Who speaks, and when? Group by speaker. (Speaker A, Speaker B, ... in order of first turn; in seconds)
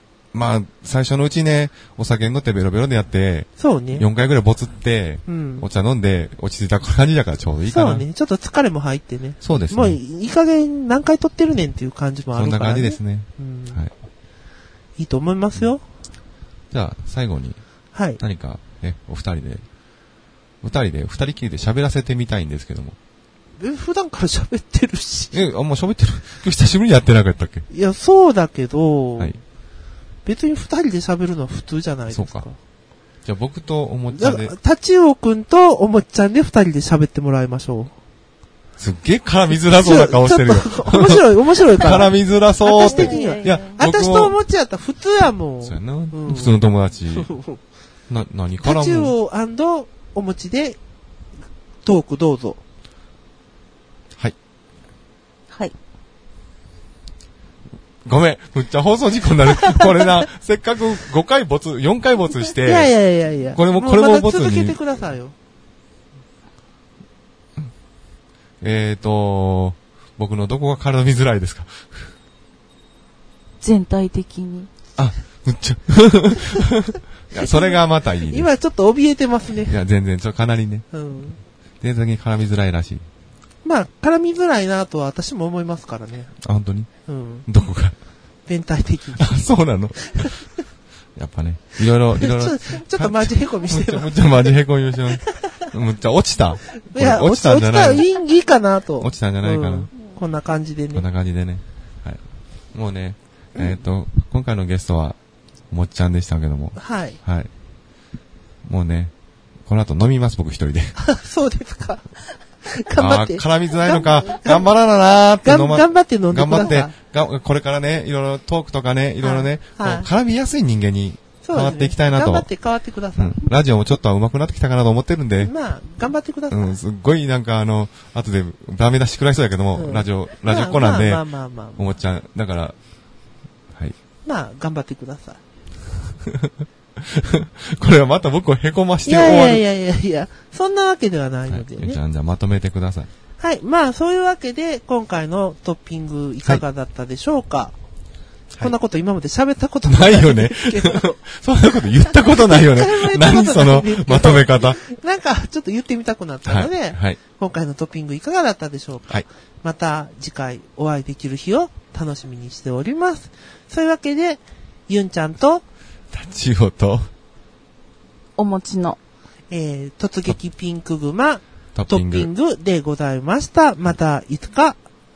Speaker A: 0.3-8.1, 9.4-10.0, 12.3-13.9, 16.7-17.6, 18.2-19.6, 20.6-22.9, 25.3-27.6, 32.1-32.4, 33.2-34.5, 38.8-44.4, 45.6-47.3, 48.1-49.1, 58.0-62.9, 63.5-64.8, 68.6-72.1, 75.0-78.5, 79.7-80.9, 81.8-83.0, 86.4-87.9, 89.2-90.4, 91.2-98.0, 99.0-99.9, 100.9-102.2, 102.7-105.2, 105.7-107.5, 108.6-109.1, 109.6-111.0, 113.0-122.5, 123.2-125.5, 126.5-132.8, 136.3-139.6, 141.5-143.1, 149.8-154.8, 156.4-157.2, 166.1-167.1, 171.7-172.3
Speaker B: 3.6-4.1, 5.2-5.7, 7.7-13.8, 15.0-15.8, 17.9-18.2, 23.6-25.4, 27.7-29.4, 30.2-32.5, 34.1-37.9, 39.6-47.6, 48.6-50.8, 51.8-52.6, 62.6-65.3, 77.4-79.8, 80.9-81.4, 83.6-86.3, 87.0-87.5, 88.5-89.5, 92.2-94.5, 96.9-101.0, 106.8-107.2, 111.0-114.7, 115.4-116.9, 119.2-120.1, 121.4-123.4, 125.4-126.8, 129.7-131.9, 134.2-135.4, 139.0-142.0, 143.4-147.7, 148.6-151.2, 152.2-165.6, 169.5-174.8
Speaker C: 42.7-43.8, 73.6-74.7, 168.4-169.0